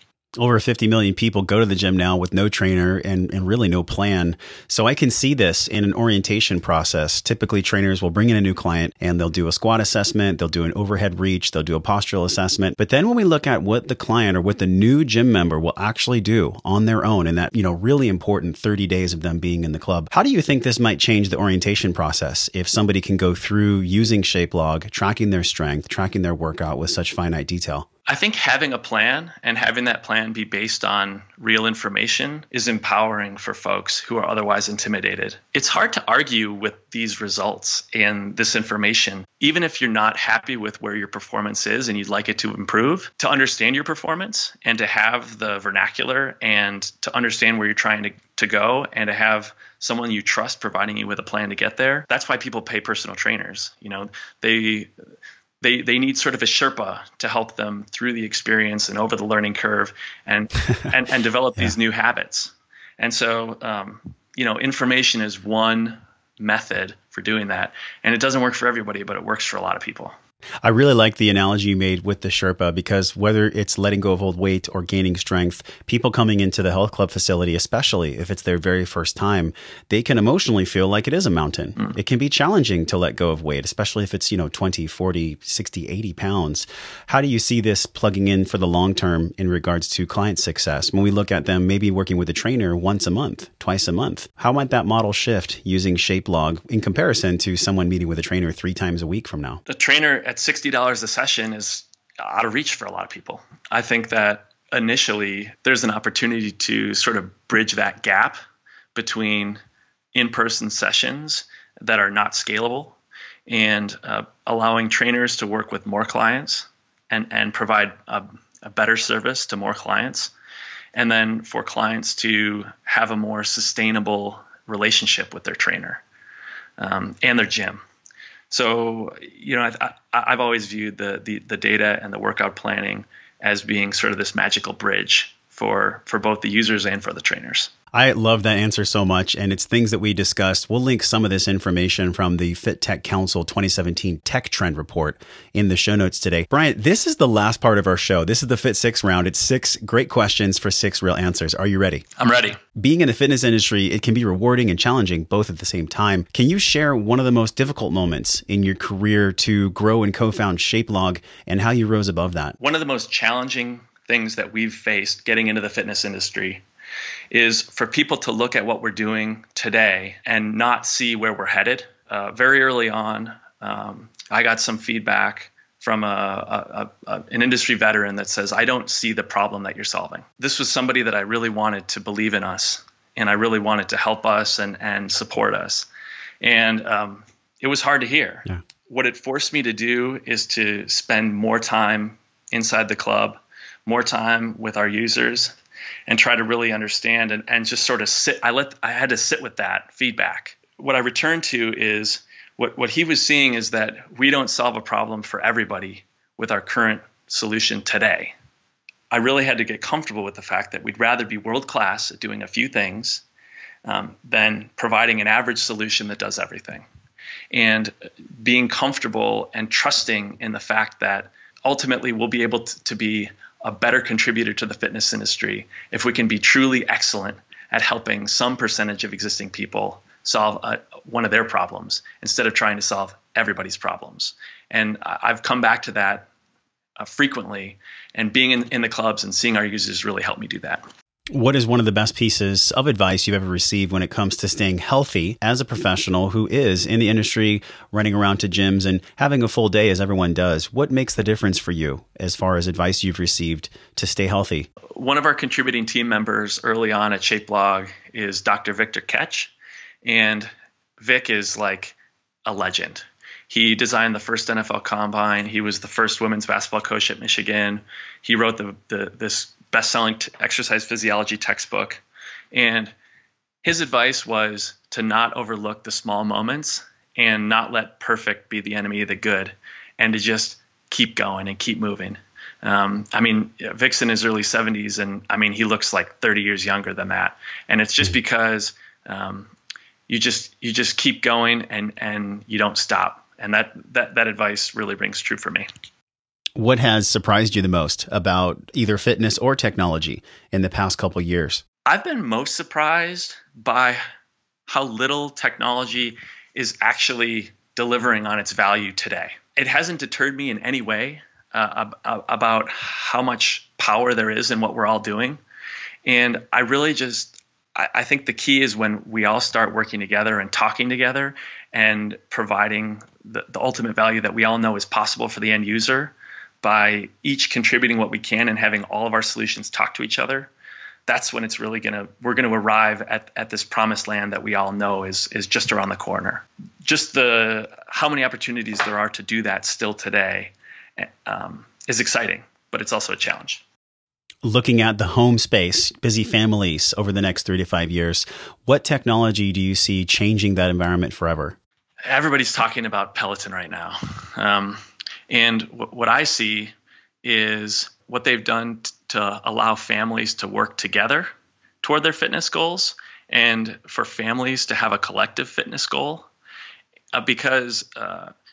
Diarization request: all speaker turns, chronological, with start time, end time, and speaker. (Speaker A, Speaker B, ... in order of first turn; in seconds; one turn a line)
Speaker A: 0.4-27.9
Speaker B: 28.1-54.9
Speaker B: 55.6-70.1
Speaker A: 70.6-99.6
Speaker B: 99.7-108.4
Speaker B: 108.9-109.6
Speaker B: 110.1-120.3
Speaker B: 120.9-126.0
Speaker B: 126.8-127.8
Speaker B: 128.5-137.7
Speaker A: 137.9-152.0
Speaker B: 152.2-152.6
Speaker A: 152.8-162.6
Speaker B: 162.6-166.6
Speaker B: 167.3-185.9
Speaker B: 186.4-195.6
Speaker B: 196.1-208.3
Speaker B: 209.1-213.2
Speaker B: 213.8-216.8
Speaker B: 217.5-236.3
Speaker B: 237.0-240.8
Speaker A: 241.3-254.7
Speaker B: 254.9-272.9
Speaker B: 273.6-289.5
Speaker B: 290.1-295.7
Speaker A: 296.6-301.6
Speaker B: 301.9-304.0
Speaker B: 304.7-315.4
Speaker B: 316.0-330.5
Speaker B: 331.1-343.6
Speaker A: 344.4-351.6
Speaker B: 352.0-361.3
Speaker B: 361.8-366.3
Speaker B: 367.1-368.3